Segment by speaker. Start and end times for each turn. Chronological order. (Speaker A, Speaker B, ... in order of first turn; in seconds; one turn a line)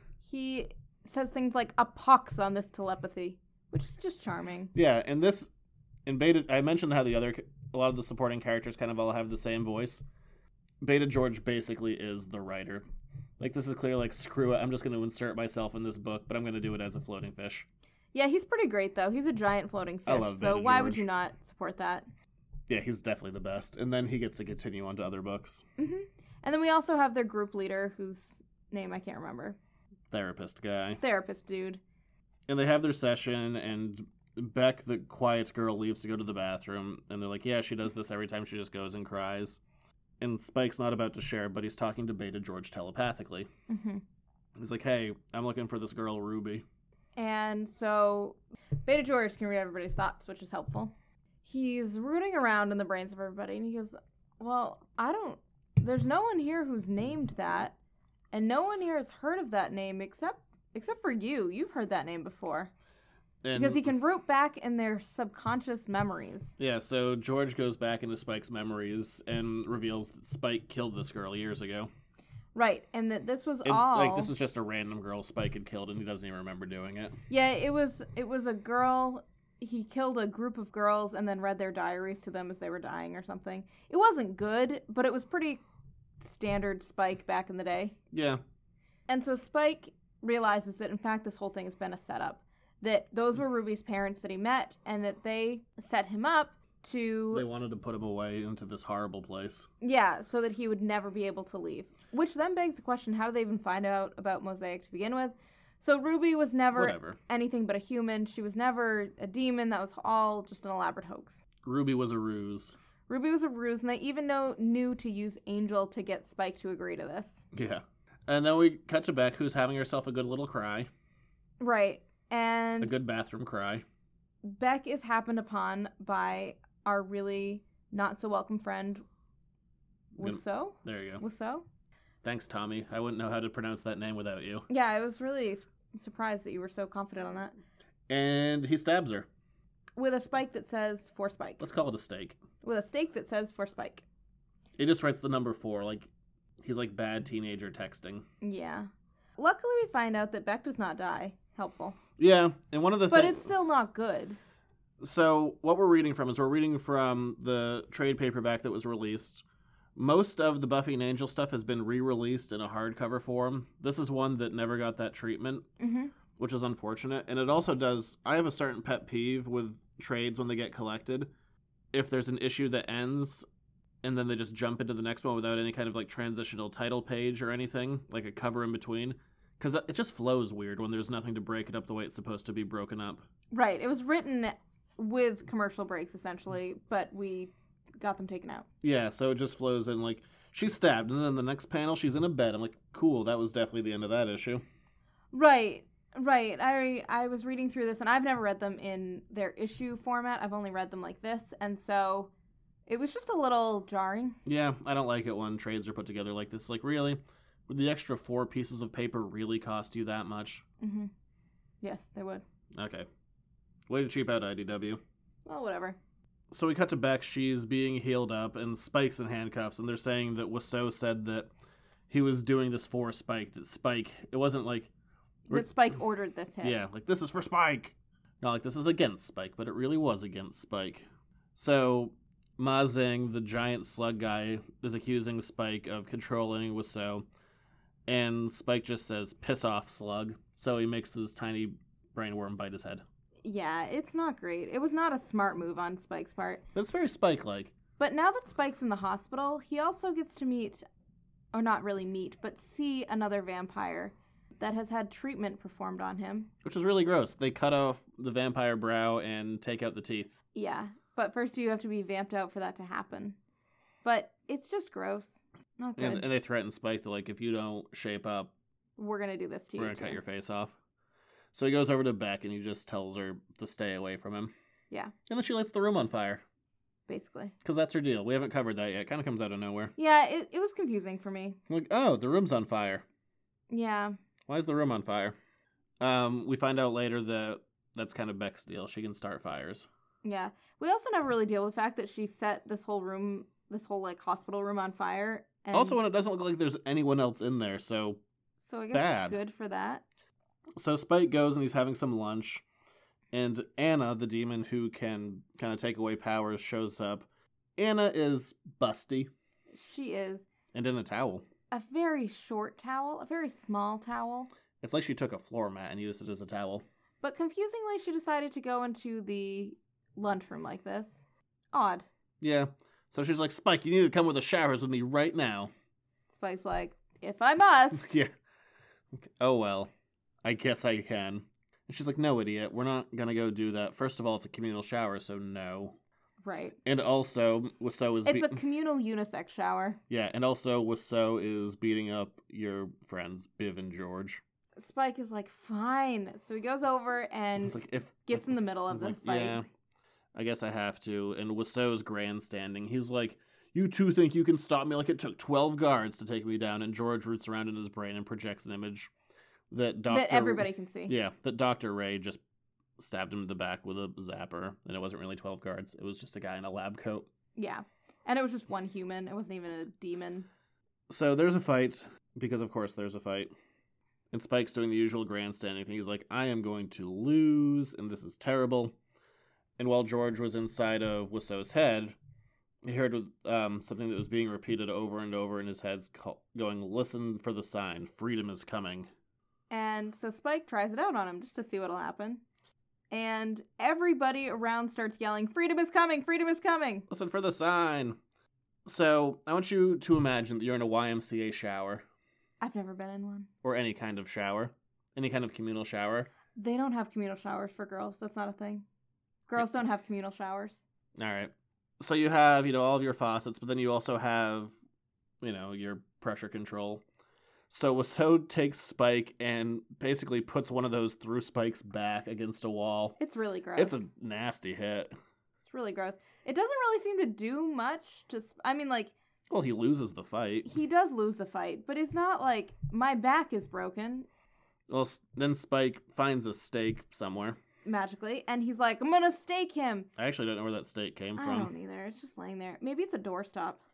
Speaker A: 0.3-4.7
Speaker B: 4.7-5.5
Speaker B: 6.1-10.0
Speaker B: 10.8-12.8
Speaker B: 13.4-17.7
Speaker A: 18.1-22.1
Speaker B: 20.1-21.1
Speaker B: 22.7-25.6
Speaker A: 25.8-29.6
Speaker B: 30.1-31.0
Speaker A: 31.0-31.8
Speaker B: 32.5-39.6
Speaker B: 40.2-43.5
Speaker A: 43.7-44.0
Speaker B: 44.6-46.6
Speaker A: 47.2-50.9
Speaker A: 51.5-57.8
Speaker A: 58.3-62.7
Speaker B: 63.4-63.9
Speaker A: 63.5-66.5
Speaker B: 66.6-71.9
Speaker A: 72.5-74.3
Speaker B: 73.7-77.2
Speaker A: 77.3-85.6
Speaker A: 86.2-88.0
Speaker B: 88.1-88.4
Speaker A: 89.1-97.5
Speaker B: 97.3-99.7
Speaker A: 99.8-111.4
Speaker B: 106.7-107.2
Speaker B: 111.6-112.8
Speaker A: 113.1-117.4
Speaker B: 117.5-120.9
Speaker A: 121.6-122.9
Speaker B: 122.8-123.8
Speaker A: 124.4-129.0
Speaker B: 130.2-131.2
Speaker A: 130.2-131.7
Speaker B: 132.2-134.7
Speaker A: 134.7-137.5
Speaker B: 138.1-139.3
Speaker A: 140.0-141.6
Speaker B: 141.6-142.4
Speaker A: 142.6-144.0
Speaker B: 144.8-146.1
Speaker B: 146.6-148.3
Speaker A: 148.4-152.0
Speaker B: 152.2-153.5
Speaker A: 153.1-154.4
Speaker B: 155.0-159.4
Speaker B: 160.0-165.7
Speaker A: 165.8-166.1
Speaker B: 166.4-171.3
Speaker B: 171.9-173.5
Speaker B: 174.0-183.2
Speaker A: 183.5-188.7
Speaker B: 188.8-194.6
Speaker A: 195.3-202.3
Speaker A: 202.9-204.4
Speaker B: 204.4-210.6
Speaker A: 210.8-211.1
Speaker A: 211.8-212.4
Speaker B: 212.8-213.1
Speaker B: 213.9-215.0
Speaker A: 215.5-216.0
Speaker B: 216.5-221.5
Speaker B: 222.1-224.9
Speaker A: 225.5-226.8
Speaker B: 226.6-237.3
Speaker B: 238.1-243.0
Speaker A: 243.4-246.6
Speaker B: 246.8-247.7
Speaker A: 248.0-250.8
Speaker A: 251.5-256.5
Speaker B: 256.6-260.4
Speaker A: 260.5-263.4
Speaker A: 264.0-266.2
Speaker B: 266.0-268.5
Speaker A: 269.0-270.2
Speaker B: 269.8-270.8
Speaker B: 271.5-274.5
Speaker B: 275.3-276.4
Speaker A: 277.1-277.5
Speaker B: 277.6-279.9
Speaker A: 280.0-281.6
Speaker B: 281.7-283.0
Speaker A: 283.7-284.2
Speaker B: 284.5-285.4
Speaker B: 286.0-289.9
Speaker A: 290.2-296.0
Speaker B: 295.7-298.2
Speaker A: 298.6-300.0
Speaker B: 298.9-299.4
Speaker B: 300.8-302.6
Speaker B: 303.3-307.3
Speaker B: 307.8-309.3
Speaker A: 309.7-310.4
Speaker B: 310.7-311.5
Speaker A: 311.7-314.5
Speaker B: 314.8-316.8
Speaker A: 317.2-322.1
Speaker B: 322.4-325.7
Speaker A: 326.3-328.1
Speaker B: 327.9-328.3
Speaker B: 329.1-329.9
Speaker B: 330.4-336.0
Speaker A: 336.4-336.8
Speaker B: 336.9-338.6
Speaker A: 338.2-340.0
Speaker B: 340.1-344.4
Speaker A: 344.8-349.6
Speaker B: 347.6-349.7
Speaker B: 350.4-359.1
Speaker B: 359.7-362.4
Speaker A: 360.1-361.1
Speaker B: 363.0-367.3
Speaker A: 367.6-370.5
Speaker B: 371.1-373.5
Speaker B: 374.3-378.9
Speaker B: 379.8-382.2
Speaker B: 382.8-389.1
Speaker A: 389.7-392.4
Speaker A: 393.1-397.1
Speaker B: 397.1-398.2
Speaker B: 398.9-402.1
Speaker A: 402.6-403.5
Speaker B: 403.6-406.3
Speaker A: 406.6-408.8
Speaker A: 409.5-410.8
Speaker B: 411.2-414.7
Speaker B: 415.4-417.0
Speaker B: 417.7-423.2
Speaker A: 423.2-424.0
Speaker B: 423.8-425.1
Speaker A: 425.7-429.1
Speaker B: 429.5-430.7
Speaker A: 430.6-434.3
Speaker B: 434.9-437.6
Speaker A: 437.9-440.1
Speaker B: 440.2-441.7
Speaker A: 441.4-443.8